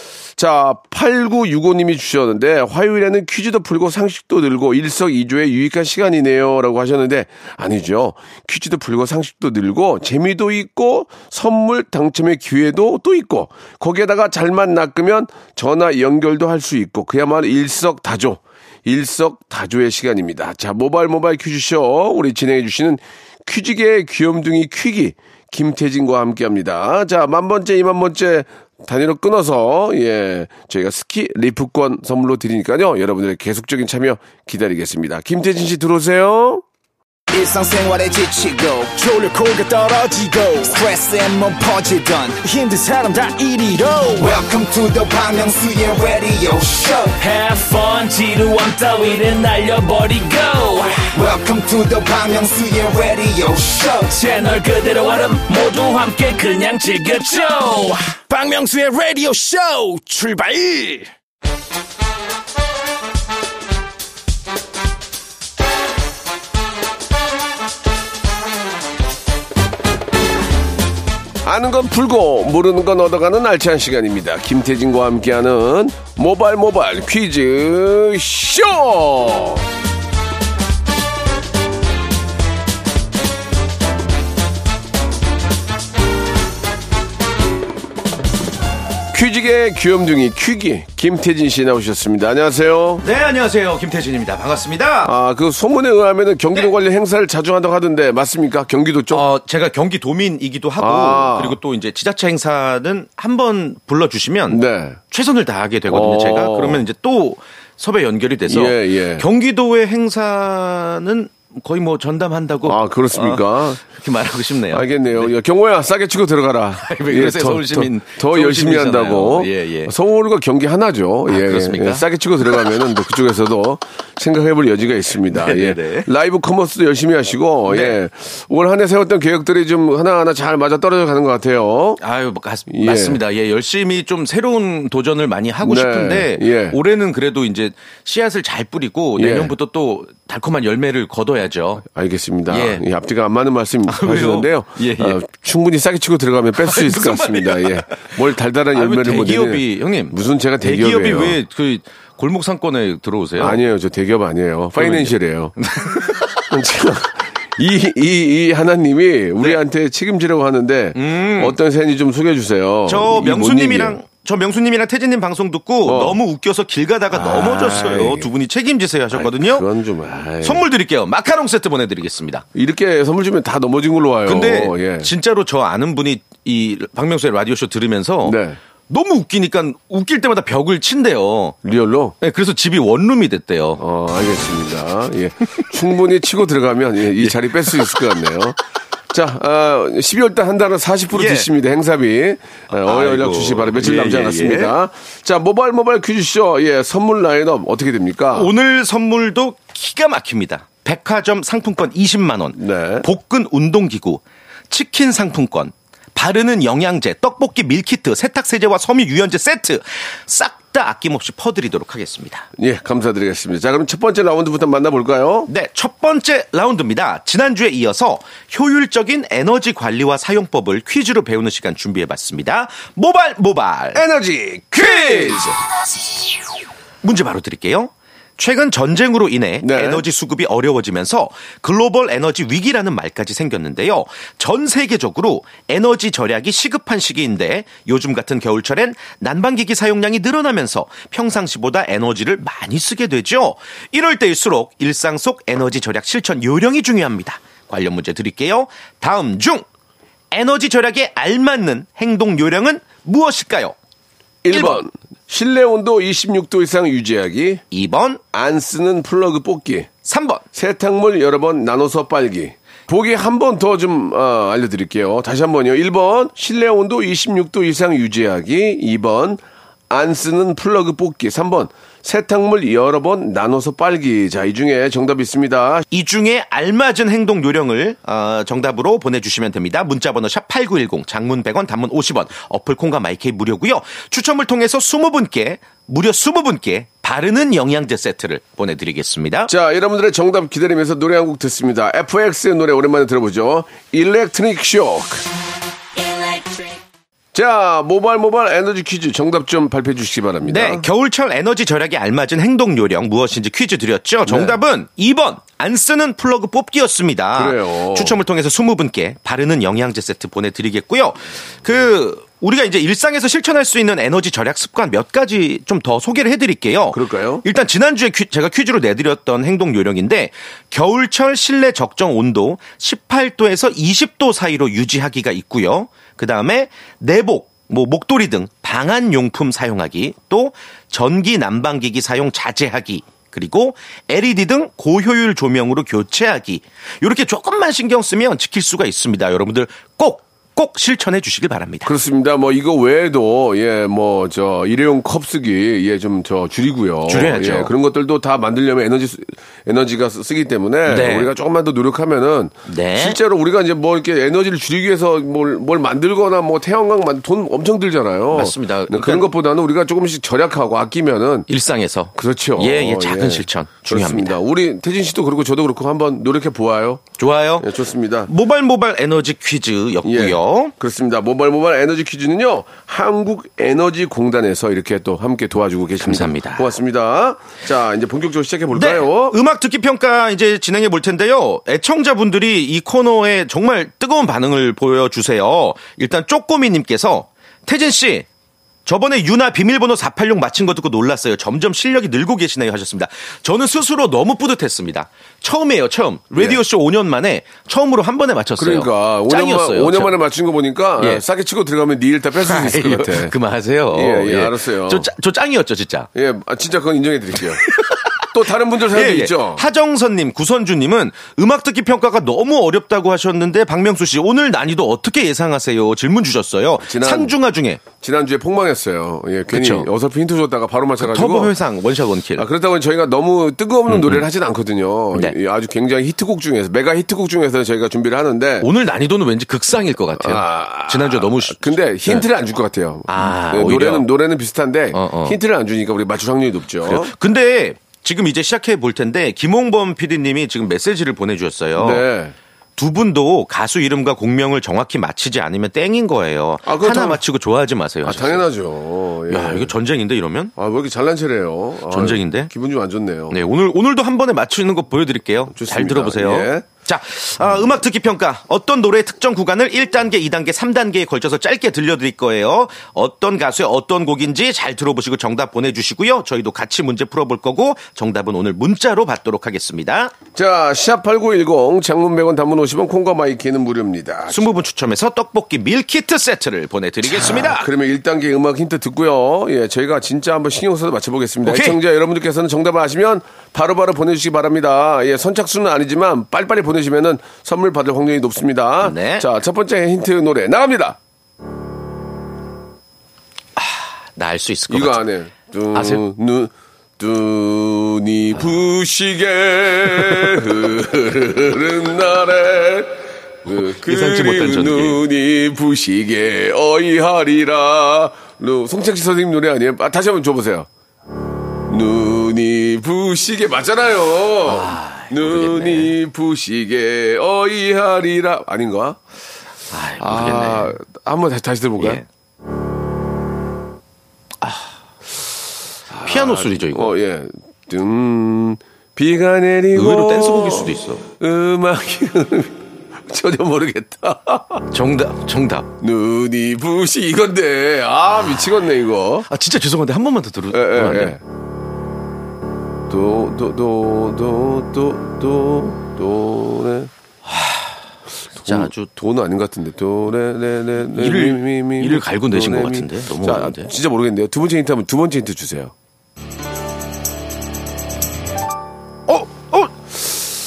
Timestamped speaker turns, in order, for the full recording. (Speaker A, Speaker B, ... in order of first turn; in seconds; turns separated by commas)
Speaker A: 0.3-36.6, Speaker B: 37.3-47.2, Speaker C: 47.2-51.1, Speaker B: 51.1-54.2, Speaker C: 54.1-58.1, Speaker D: 58.2-61.1, Speaker A: 71.4-79.7, Speaker A: 89.1-93.0, Speaker E: 93.0-95.1, Speaker A: 95.0-99.2, Speaker E: 99.1-115.3, Speaker A: 100.8-101.6, Speaker A: 104.5-105.0, Speaker A: 105.9-106.8, Speaker A: 108.5-109.2, Speaker A: 112.6-113.8, Speaker A: 114.7-132.0, Speaker E: 116.8-119.9, Speaker E: 121.3-122.7, Speaker E: 125.3-126.1, Speaker E: 127.7-128.0, Speaker E: 132.0-141.8, Speaker A: 132.7-133.2, Speaker A: 135.6-136.8, Speaker A: 139.2-139.5, Speaker A: 141.8-151.4, Speaker E: 142.5-142.8, Speaker E: 143.9-145.2, Speaker E: 146.6-148.1, Speaker E: 148.7-153.6, Speaker A: 153.4-155.6, Speaker E: 154.8-156.3, Speaker A: 156.4-164.0, Speaker E: 160.9-161.6, Speaker E: 162.9-169.7, Speaker A: 165.8-166.2, Speaker A: 167.1-168.3, Speaker A: 169.1-170.6, Speaker E: 170.4-172.4, Speaker A: 172.6-175.1, Speaker E: 174.2-181.6, Speaker A: 178.2-178.6, Speaker A: 181.6-182.1, Speaker E: 182.2-183.8, Speaker A: 183.8-188.6, Speaker E: 187.2-188.0, Speaker A: 189.1-198.5, Speaker E: 191.1-191.5, Speaker E: 192.7-194.7, Speaker E: 198.3-212.5, Speaker A: 202.6-203.1, Speaker A: 212.6-215.5, Speaker E: 215.5-224.0, Speaker A: 223.9-225.6, Speaker E: 224.8-225.4, Speaker E: 227.0-249.6, Speaker A: 229.6-230.1, Speaker E: 250.3-253.8, Speaker A: 254.4-257.6, Speaker E: 254.5-254.8, Speaker E: 257.7-258.2, Speaker A: 258.3-259.9, Speaker E: 260.1-260.4, Speaker A: 260.5-275.9, Speaker E: 275.9-289.5, Speaker A: 289.5-295.2, Speaker A: 297.3-300.9, Speaker E: 300.4-341.9, Speaker A: 304.2-304.6, Speaker A: 307.3-308.2, Speaker A: 316.9-317.4, Speaker A: 341.8-361.5, Speaker E: 347.1-347.7, Speaker E: 350.9-351.3, Speaker E: 352.7-353.2, Speaker E: 358.3-359.3, Speaker E: 361.5-364.4, Speaker A: 362.1-367.0, Speaker E: 367.2-367.7, Speaker A: 367.6-368.3, Speaker E: 368.3-370.7, Speaker A: 370.0-379.4, Speaker E: 376.0-376.7, Speaker E: 378.7-388.3, Speaker E: 388.9-400.2, Speaker A: 396.3-396.6, Speaker A: 398.6-403.3, Speaker E: 401.0-401.2, Speaker E: 402.4-406.1, Speaker A: 403.9-405.1, Speaker A: 406.1-407.6, Speaker E: 407.6-408.2, Speaker A: 408.3-409.6, Speaker E: 408.9-417.8, Speaker A: 416.8-417.3, Speaker A: 418.0-421.5, Speaker E: 419.5-419.9, Speaker E: 421.0-422.5, Speaker A: 422.4-428.7, Speaker E: 423.9-424.2, Speaker E: 428.6-432.2, Speaker A: 430.2-437.1, Speaker E: 433.1-434.1, Speaker E: 434.9-435.4, Speaker E: 436.8-442.1, Speaker A: 441.8-442.4, Speaker E: 442.8-448.4, Speaker A: 446.6-447.2, Speaker A: 448.0-449.7, Speaker E: 449.3-450.5, Speaker A: 450.6-453.4, Speaker E: 451.9-452.5, Speaker E: 453.3-470.1, Speaker A: 455.5-456.7, Speaker A: 470.3-474.5, Speaker E: 474.3-477.7, Speaker A: 477.0-491.0, Speaker E: 481.4-481.8, Speaker E: 488.8-489.3, Speaker E: 493.6-495.1, Speaker A: 494.7-510.7, Speaker E: 495.7-496.0, Speaker E: 503.6-505.0, Speaker A: 511.7-519.0, Speaker E: 514.4-515.9, Speaker E: 519.7-520.8, Speaker A: 520.0-522.0, Speaker E: 521.8-522.1, Speaker E: 524.4-524.7, Speaker A: 525.9-534.6, Speaker E: 525.9-526.9, Speaker E: 529.7-531.0, Speaker E: 534.7-535.7, Speaker A: 535.8-539.3, Speaker E: 539.3-541.1, Speaker A: 540.5-541.2, Speaker A: 542.9-546.9, Speaker E: 547.2-547.8, Speaker E: 548.4-548.9, Speaker A: 548.4-555.7, Speaker E: 550.9-553.7, Speaker E: 559.1-559.7